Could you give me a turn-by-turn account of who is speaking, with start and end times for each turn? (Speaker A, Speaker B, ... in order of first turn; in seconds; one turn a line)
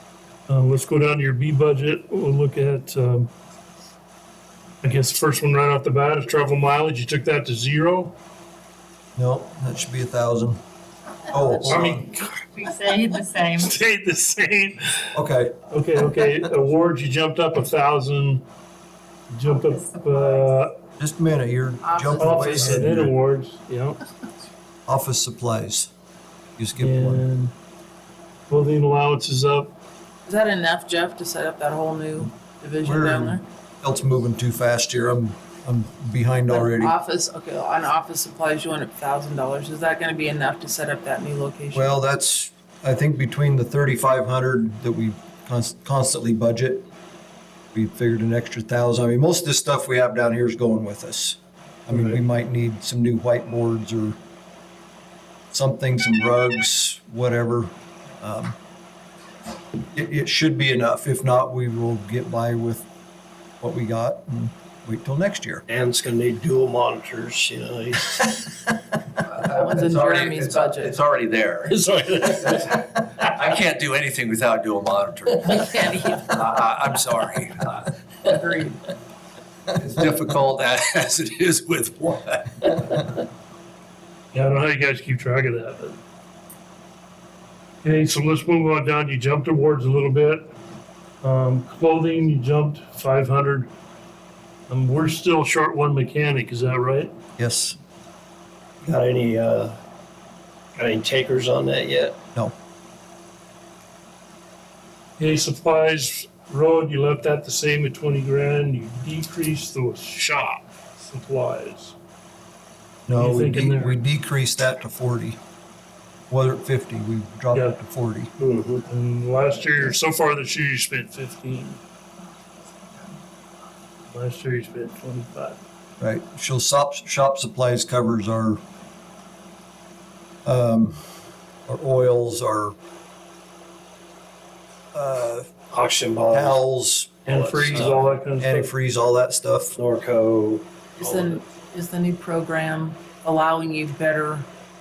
Speaker A: 0.5-3.3
Speaker A: 4.8-8.1
Speaker B: 9.2-10.6
Speaker B: 11.3-12.0
Speaker A: 11.7-12.5
Speaker C: 12.5-13.8
Speaker A: 13.6-15.1
Speaker B: 15.1-15.6
Speaker A: 15.7-18.4
Speaker A: 19.3-20.7
Speaker C: 19.7-20.5
Speaker B: 21.0-23.1
Speaker D: 21.8-22.9
Speaker A: 22.2-24.0
Speaker B: 24.9-25.9
Speaker B: 26.6-27.2
Speaker A: 26.8-27.5
Speaker A: 28.5-29.7
Speaker D: 30.2-33.4
Speaker B: 32.8-37.0
Speaker D: 36.5-41.9
Speaker B: 41.7-46.9
Speaker B: 47.7-54.2
Speaker B: 55.5-58.5
Speaker B: 59.9-62.9
Speaker B: 63.6-65.6
Speaker E: 65.7-68.4
Speaker D: 69.4-71.0
Speaker F: 69.8-71.7
Speaker A: 71.7-73.0
Speaker F: 73.3-75.5
Speaker D: 75.5-76.2
Speaker F: 76.1-77.7
Speaker D: 78.2-78.8
Speaker F: 79.8-82.5
Speaker A: 84.3-86.0
Speaker A: 87.8-90.5
Speaker A: 91.2-93.7
Speaker A: 94.7-97.1
Speaker B: 97.4-97.8
Speaker E: 98.8-99.8
Speaker E: 100.8-102.2
Speaker A: 105.2-111.9
Speaker B: 113.1-115.4
Speaker A: 113.2-114.0
Speaker B: 116.3-118.3
Speaker E: 118.4-118.8
Speaker A: 118.9-121.8
Speaker A: 124.1-125.6
Speaker B: 126.0-128.6
Speaker B: 130.4-132.8
Speaker B: 134.9-135.5
Speaker E: 135.7-136.6
Speaker B: 136.3-137.2
Speaker A: 137.2-138.7
Speaker E: 137.3-138.0
Speaker B: 137.7-139.8
Speaker E: 139.7-141.4
Speaker D: 141.0-144.5